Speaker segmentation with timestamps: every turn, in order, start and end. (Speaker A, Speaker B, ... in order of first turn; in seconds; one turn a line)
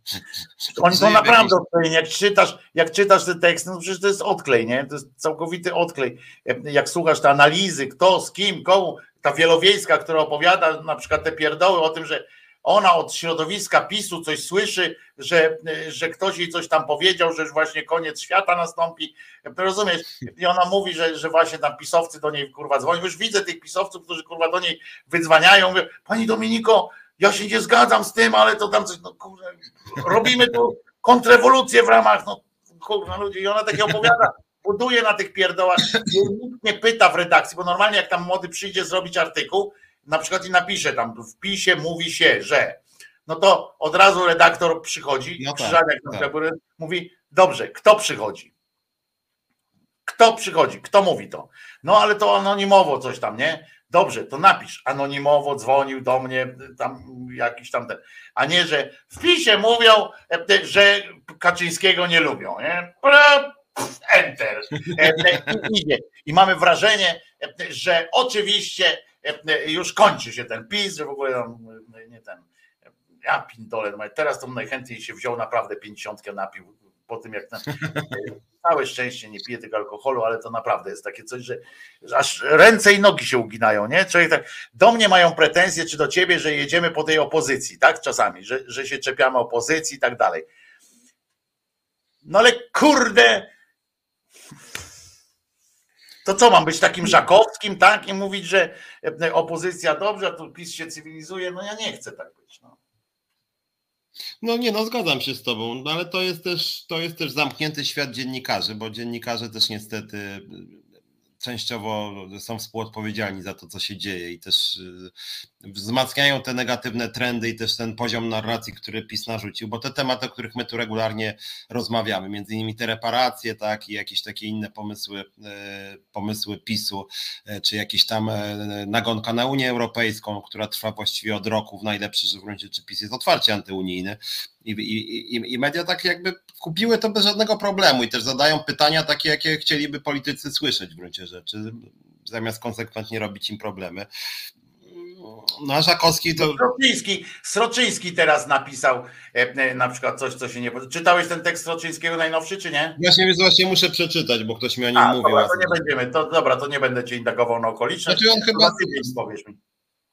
Speaker A: 0.6-1.6
Speaker B: 0.7-48.5
Speaker A: 45.4-46.3
Speaker B: 50.1-72.5
Speaker A: 65.0-65.7
Speaker B: 73.2-90.5
Speaker B: 92.2-93.5
Speaker B: 96.2-102.8
Speaker A: 104.4-110.8
Speaker A: 111.4-144.1
Speaker A: 144.8-146.7
Speaker B: 146.4-153.0
Speaker A: 153.0-155.8
Speaker B: 155.0-159.6
Speaker A: 158.1-159.1